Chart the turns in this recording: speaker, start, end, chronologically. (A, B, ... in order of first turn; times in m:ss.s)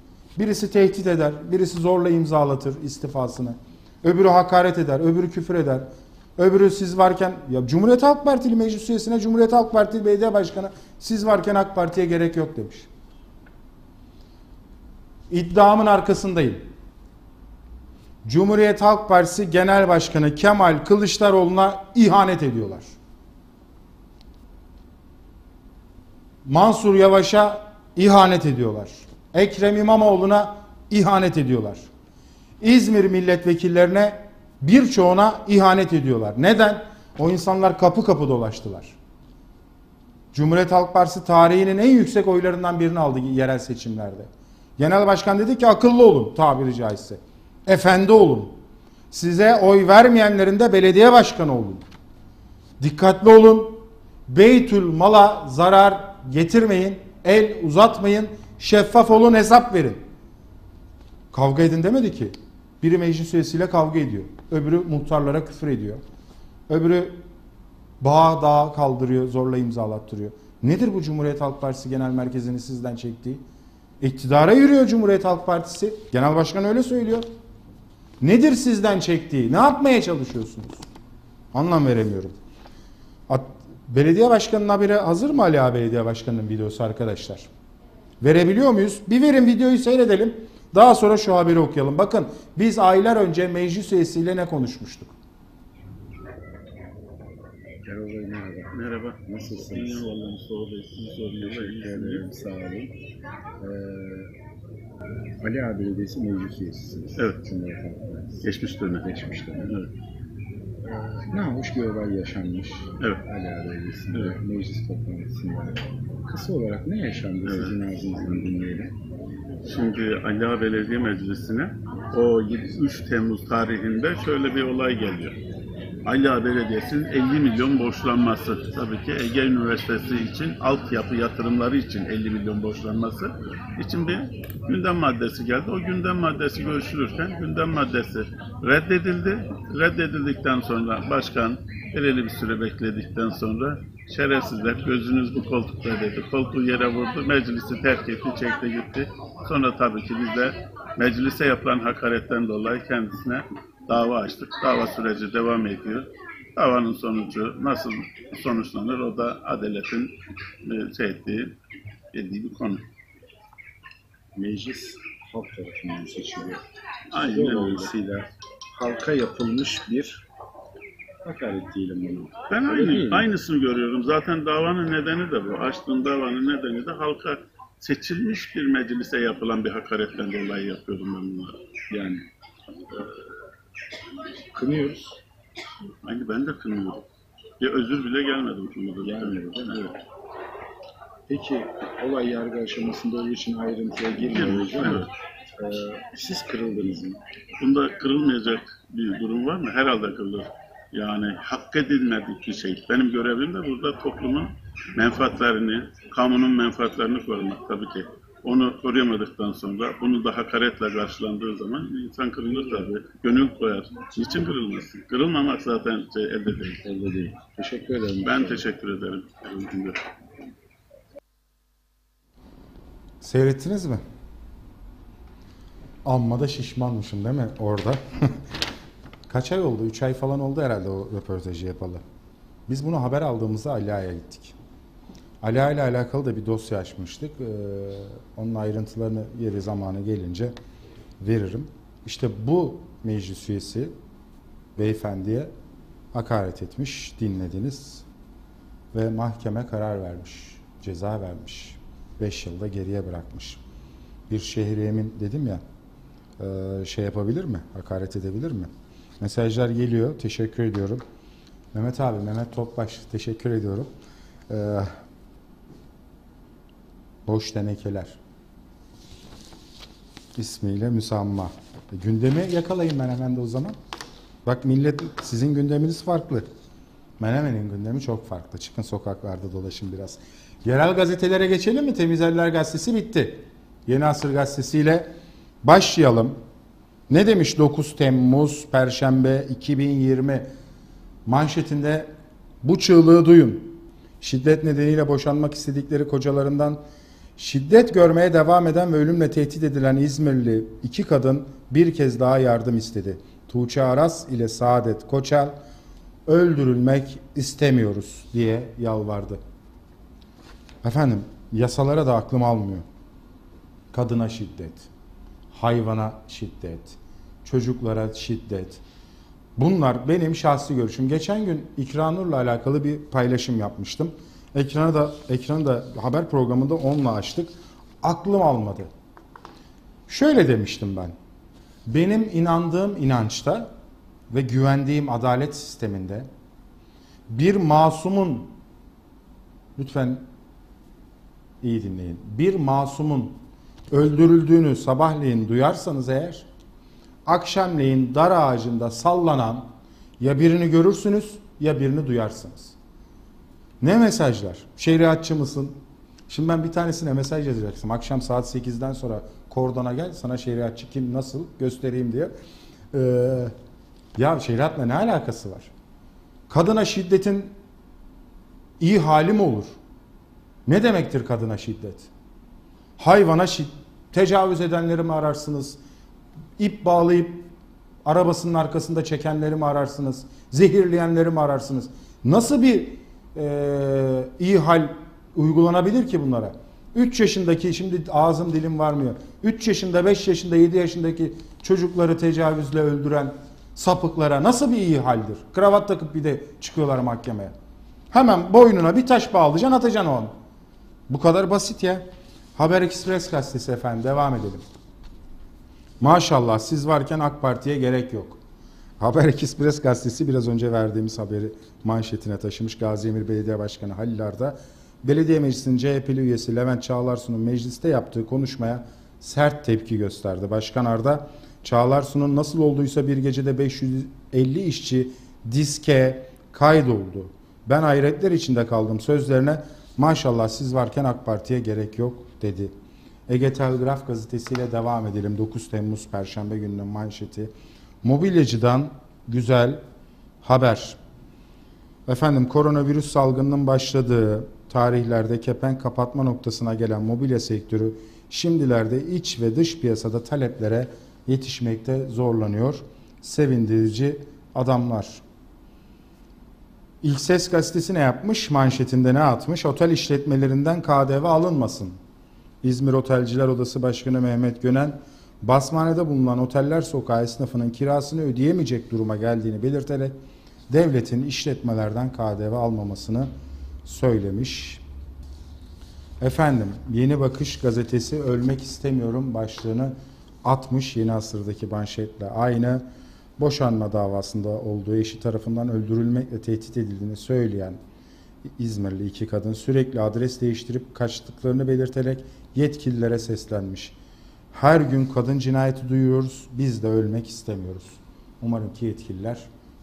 0:00.4-0:12.9 A
0:15.3-0:16.7 A
0:18.2-0:22.9 A
0:26.4-0:31.9 A
0:32.6-0:39.0 A
0:40.3-0:48.6 A
0:49.1-0:51.8 A
0:52.8-1:00.0 A
1:01.3-1:06.0 A
1:06.7-1:07.2 A
1:08.0-1:13.4 A
1:14.0-1:17.3 A
1:18.2-1:20.8 A
1:21.5-1:22.3 A
1:23.3-1:27.5 A
1:28.2-1:35.1 A
1:37.8-1:40.1 B
1:38.7-1:42.2 C
1:41.0-1:42.9 B
1:43.6-1:44.3 B
1:45.4-1:48.4 B
1:48.4-1:49.9 C
1:49.0-1:49.7 B
1:50.8-1:58.9 B
1:57.4-1:57.8 C
1:59.6-2:05.4 C
2:06.0-2:41.5 C
2:42.1-2:42.8 C
2:44.3-2:46.6 B
2:47.1-2:47.9 C
2:47.2-2:50.2 B
2:51.2-2:53.3 B
2:52.5-3:02.2 C
3:04.5-3:05.0 B
3:06.0-3:07.0 C
3:07.6-3:09.9 C
3:09.0-3:09.9 B
3:11.3-3:17.2 B
3:14.3-3:15.1 C
3:17.6-3:36.8 C
3:36.8-3:38.7 B
3:38.2-3:40.0 C
3:43.2-3:44.0 A
3:46.0-3:48.4 A
3:49.3-3:52.0 A
3:52.7-3:54.5 A
3:55.4-4:00.6 A
4:01.2-4:03.9 A
4:04.8-4:05.5 A
4:06.1-4:08.0 A
4:08.9-4:13.6 A
4:14.3-4:15.6 A
4:16.4-4:21.0 A
4:21.7-4:23.9 A
4:24.5-4:24.9 A
4:27.2-4:28.2 A
4:30.4-4:33.8 A
4:34.4-4:36.5 A
4:37.2-4:45.1 A
4:45.6-4:46.4 A
4:47.1-4:50.5 A
4:51.2-4:52.1 A
4:52.6-4:56.8 A
4:57.4-5:05.6 A
5:06.2-5:09.4 A
5:10.8-5:12.8 A
5:13.9-5:14.9 A
5:15.5-5:18.8 A
5:19.6-5:28.9 A
5:30.1-5:31.1 A
5:31.8-5:33.7 A
5:34.3-5:36.3 A
5:37.3-5:38.5 A
5:39.8-5:40.3 A
5:41.6-5:43.4 A
5:43.9-5:46.5 A
5:47.2-5:52.7 A
5:53.8-6:02.3 A
6:02.9-6:03.5 A
6:04.1-6:05.7 A
6:06.5-6:07.5 A
6:08.8-6:09.7 A
6:10.6-6:12.1 A
6:13.0-6:15.8 A
6:16.6-6:17.4 A
6:18.0-6:37.5 A
6:38.1-6:40.3 A
6:41.1-6:44.6 A
6:46.0-6:48.4 A
6:49.0-7:12.7 A
7:13.3-7:19.8 A
7:20.4-7:21.0 A
7:22.1-7:35.2 A
7:37.0-7:42.0 A
7:42.6-7:50.2 A
7:50.7-7:53.3 A
7:53.8-7:54.8 A
7:56.2-8:02.8 A
8:03.4-8:07.8 A
8:08.6-8:13.9 A
8:14.5-8:19.5 A